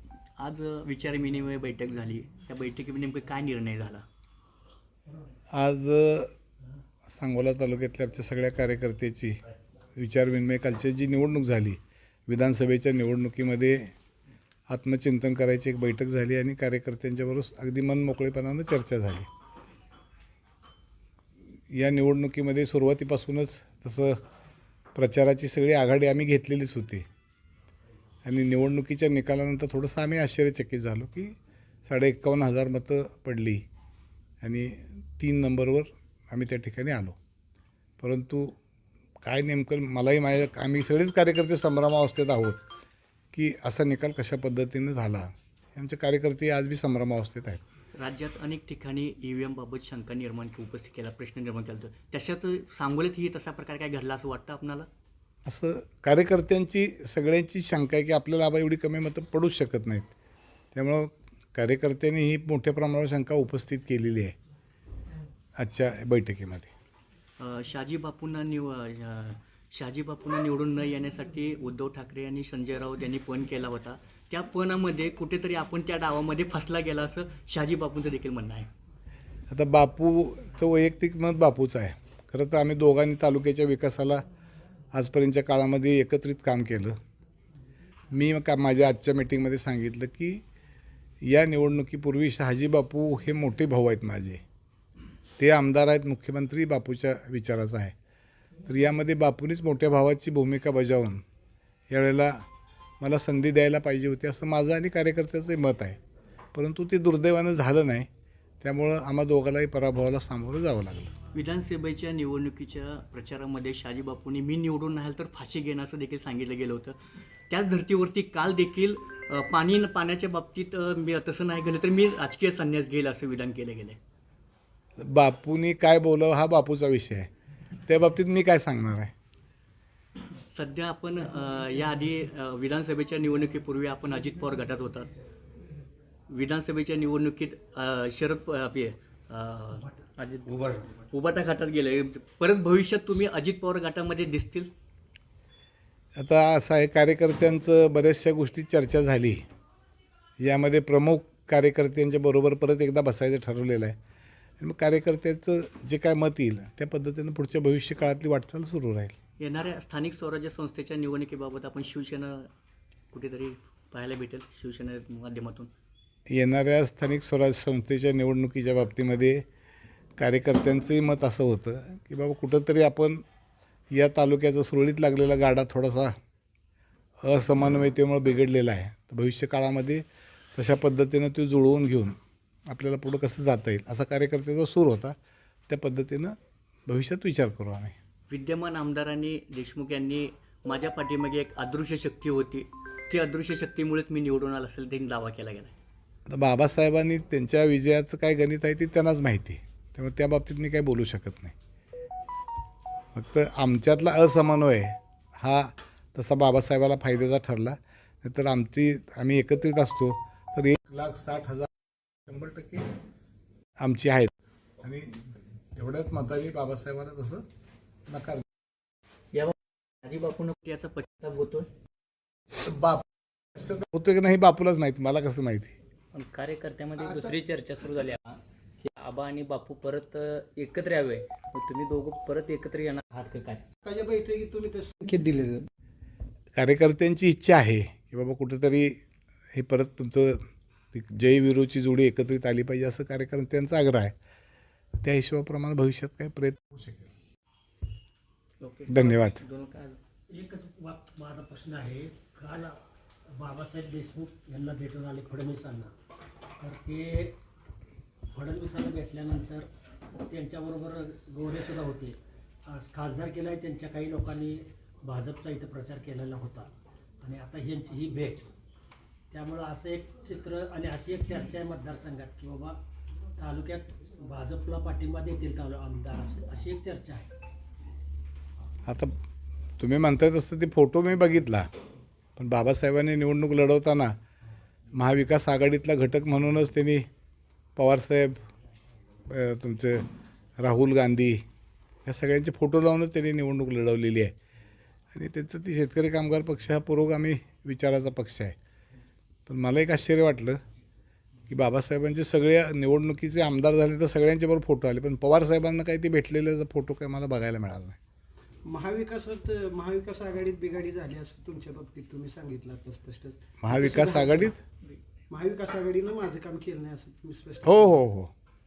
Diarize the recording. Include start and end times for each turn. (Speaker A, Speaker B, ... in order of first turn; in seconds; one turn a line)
Speaker A: 0.4-4.0
Speaker B: 5.5-6.3
Speaker B: 7.1-9.4
Speaker B: 10.0-13.9
Speaker B: 14.7-19.3
Speaker B: 21.7-24.2
Speaker B: 24.9-27.1
Speaker B: 28.2-31.4
Speaker B: 31.9-33.6
Speaker B: 34.4-37.2
Speaker B: 38.0-38.6
Speaker B: 39.2-42.6
Speaker B: 43.3-47.6
Speaker A: 48.0-54.9
Speaker B: 55.5-60.1
Speaker B: 60.7-64.3
Speaker B: 65.6-66.7
Speaker A: 67.4-78.7
Speaker B: 79.5-84.2
Speaker B: 84.9-87.0
Speaker B: 88.1-90.4
Speaker B: 91.2-94.4
Speaker B: 95.4-97.9
Speaker B: 98.6-101.2
Speaker B: 101.9-102.4
Speaker B: 103.0-106.0
Speaker B: 106.5-108.1
Speaker B: 108.6-111.1
Speaker A: 111.3-117.0
Speaker A: 117.5-124.0
Speaker B: 125.0-127.3
Speaker B: 127.9-129.1
Speaker A: 130.5-135.1
Speaker A: 136.3-139.9
Speaker C: 140.2-140.8
Speaker A: 140.9-144.7
Speaker B: 146.2-149.4
Speaker B: 150.4-154.0
Speaker B: 154.6-159.2
Speaker A: 159.4-162.5
Speaker A: 163.1-165.7
Speaker B: 166.3-169.4
Speaker B: 170.2-173.2
Speaker B: 173.9-176.1
Speaker B: 177.2-180.0
Speaker B: 180.6-182.2
Speaker B: 182.7-185.2
Speaker B: 185.7-186.4
Speaker B: 186.9-187.9
Speaker A: 188.3-195.7
Speaker B: 196.3-201.5
Speaker B: 203.1-211.7
Speaker B: 212.3-212.9
Speaker B: 213.8-217.4
Speaker B: 218.1-218.4
Speaker A: 219.3-221.7
Speaker B: 222.5-225.7
Speaker C: 226.1-233.6
Speaker D: 233.8-235.7
Speaker B: 236.6-239.0
Speaker B: 239.5-244.1
Speaker B: 245.0-247.1
Speaker A: 248.6-250.0
Speaker B: 248.9-249.4
Speaker E: 250.3-252.8
Speaker E: 253.4-255.9
Speaker E: 256.6-257.4
Speaker E: 258.3-259.7
Speaker E: 260.2-266.7
Speaker E: 267.2-268.5
Speaker E: 269.3-272.8
Speaker E: 273.4-277.3
Speaker B: 279.8-281.7
Speaker B: 282.4-284.1
Speaker B: 284.9-287.1
Speaker B: 287.8-288.4
Speaker B: 289.3-290.1
Speaker B: 290.6-291.4
Speaker B: 292.1-294.3
Speaker B: 295.1-298.6
Speaker B: 299.5-300.6
Speaker B: 301.5-308.0
Speaker D: 308.6-314.5
Speaker B: 313.6-314.6
Speaker D: 315.3-318.0
Speaker B: 317.6-318.3